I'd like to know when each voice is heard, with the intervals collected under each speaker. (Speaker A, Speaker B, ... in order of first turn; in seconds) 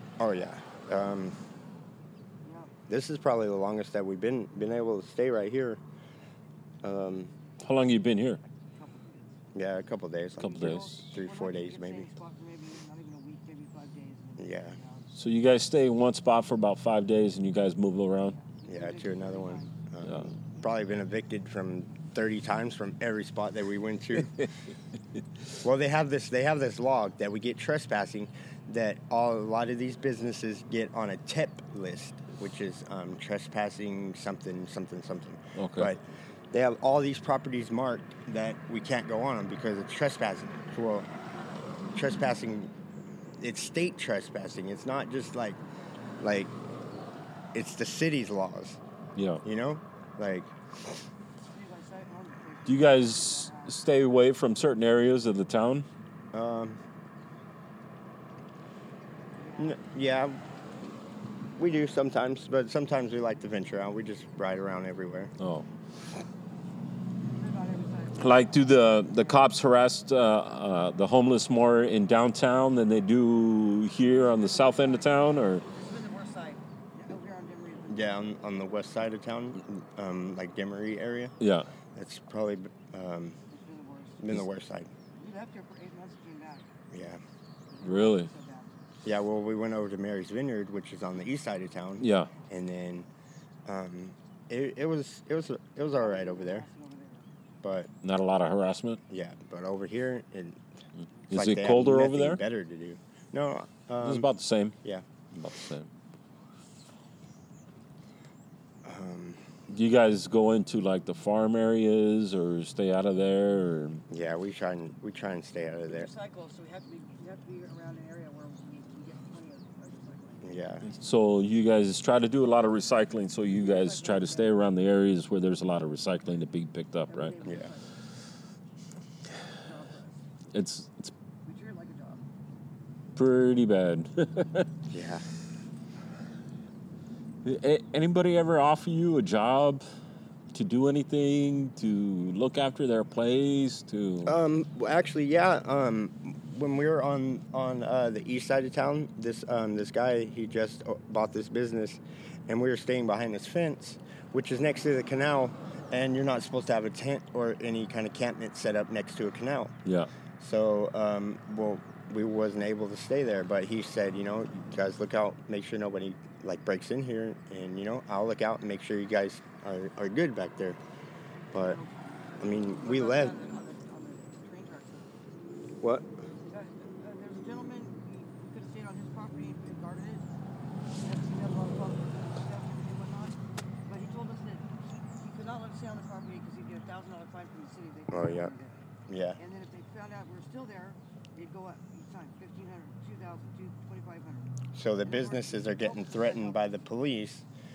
Speaker A: 0.2-1.4, 2.9-5.8, 6.8-7.3, 9.5-12.1, 14.4-14.8, 18.7-24.5, 25.6-41.1, 41.9-42.7, 43.4-45.6, 46.2-46.5, 47.5-48.8, 49.4-50.5, 56.3-56.8, 59.6-60.4, 61.6-65.3, 77.9-81.3, 81.9-83.4, 84.2-84.9, 86.9-87.2, 89.0-93.1, 93.7-96.7, 97.6-97.9, 99.1-100.6, 101.3-104.3, 108.8-109.4, 114.1-116.1, 120.4-120.8, 134.9-135.2, 144.2-159.8, 160.4-170.8, 171.5-171.8, 172.4-173.3, 175.8-176.1, 188.1-188.5, 189.1-189.4, 194.7-197.4
Speaker B: 2.4-2.7, 8.7-9.4, 10.5-15.1, 18.3-19.7, 51.5-53.8, 59.4-59.8, 67.3-69.5, 74.1-78.7, 83.5-84.3, 85.2-86.7, 87.7-88.8, 96.0-97.3, 115.9-120.6, 123.5-124.7, 127.1-128.0, 129.6-130.2, 131.4-132.2, 171.5-175.2, 176.4-180.3, 181.0-196.7
Speaker C: 7.6-8.4, 10.4-11.1, 15.1-18.4, 20.0-20.3, 35.6-35.9, 49.2-49.4, 52.7-55.9, 65.4-65.7, 68.2-75.6, 81.4-81.7, 87.8-88.3, 92.0-92.3, 98.0-99.0, 101.3-102.4, 104.0-104.8, 105.3-105.9, 109.7-114.0, 120.8-127.3, 130.5-131.1, 133.2-134.7, 137.4-139.8, 140.5-144.3, 159.8-160.1